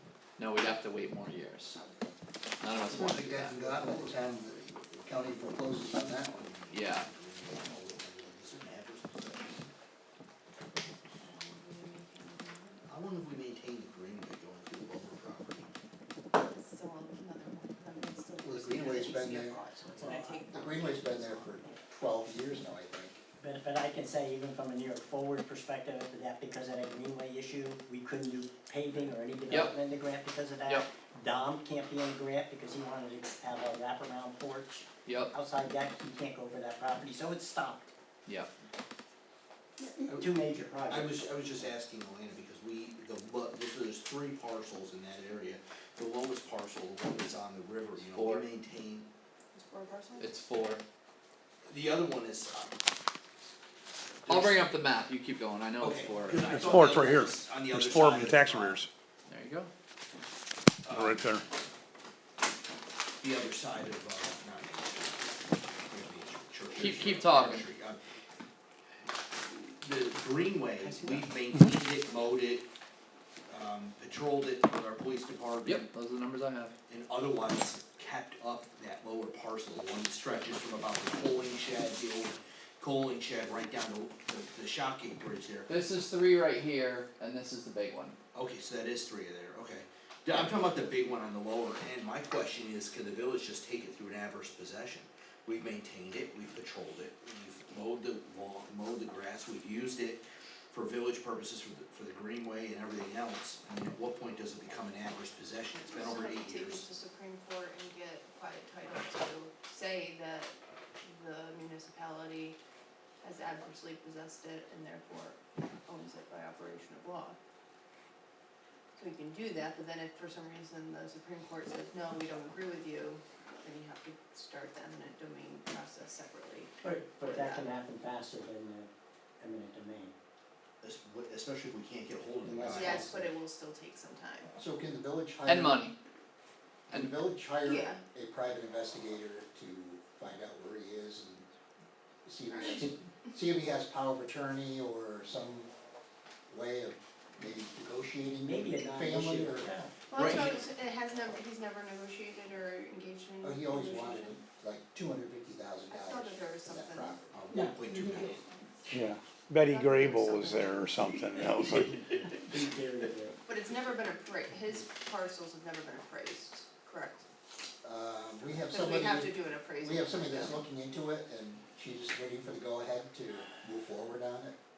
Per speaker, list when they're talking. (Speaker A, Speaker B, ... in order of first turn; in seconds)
Speaker A: 0.4-1.8, 2.6-3.7, 6.7-7.1, 35.0-35.3, 48.1-48.5, 50.2-50.8, 54.3-56.9, 59.3-59.7, 66.7-67.7, 75.6-76.7, 85.7-88.2, 135.4-135.9, 136.9-137.2
Speaker B: 1.8-2.0, 11.2-12.9, 16.3-21.7, 49.5-50.3, 105.8-112.6, 113.2-117.4, 118.9-127.7, 132.7-134.5, 137.6-138.0, 142.5-142.9, 150.1-154.4, 155.9-157.3, 159.6-161.5, 163.4-167.2, 168.7-170.6
Speaker C: 2.8-6.3, 18.4-23.2, 134.6-135.9, 136.9-141.5, 142.2-145.7, 146.5-149.7, 153.4-157.3, 167.8-174.6
Speaker D: 6.3-9.7, 12.9-15.7, 40.9-49.1, 51.6-52.7, 54.3-54.7, 55.8-58.8, 60.9-61.4, 63.2-68.0, 69.4-72.7, 73.5-75.9, 76.9-85.7, 88.3-106.8, 130.8-133.1, 150.1-150.6, 157.3-158.4
Speaker E: 20.0-20.5, 23.4-37.9, 39.9-41.3, 126.8-130.1, 132.4-133.2, 148.4-149.9, 157.5-159.0, 161.8-163.4
Speaker F: 56.5-58.9, 60.9-61.4, 158.9-162.1